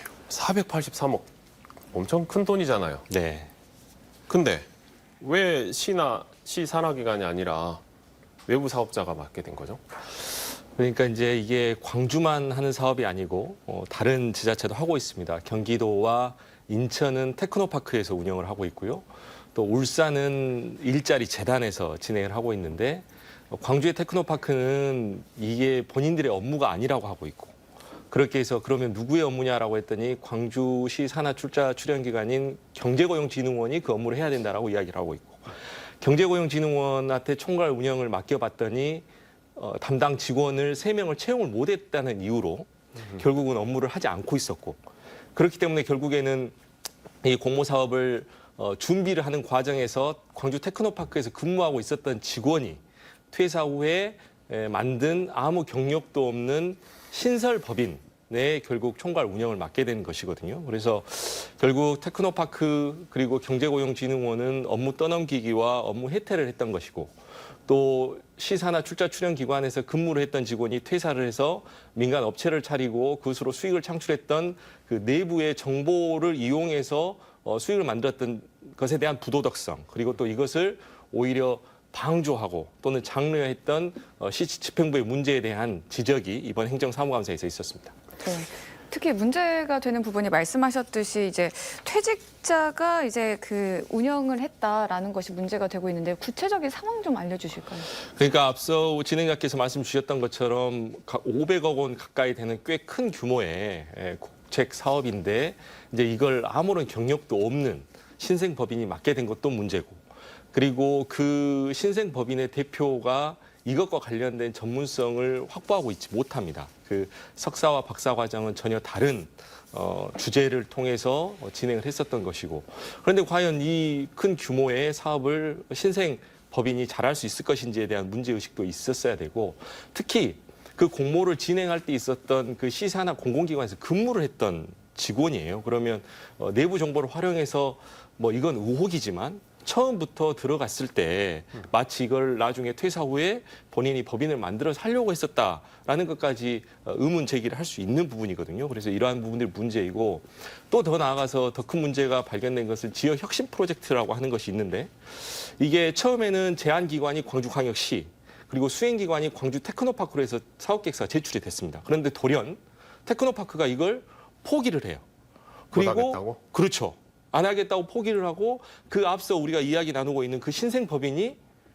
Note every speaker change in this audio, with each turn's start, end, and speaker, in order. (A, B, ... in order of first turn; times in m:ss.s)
0:00.3-0:01.3 A
0:01.9-0:03.1 A
0:03.1-0:03.5 B
0:04.3-0:04.7 A
0:05.2-0:07.8 A
0:08.5-0:09.8 A
0:10.8-0:27.6 B
0:28.1-0:44.8 B
0:45.4-0:46.6 B
0:47.2-0:52.8 B
0:53.3-1:27.9 B
1:28.2-1:37.9 C
1:38.0-1:50.0 B
1:50.5-2:45.0 B
2:45.7-2:51.4 B
2:45.7-2:46.4 A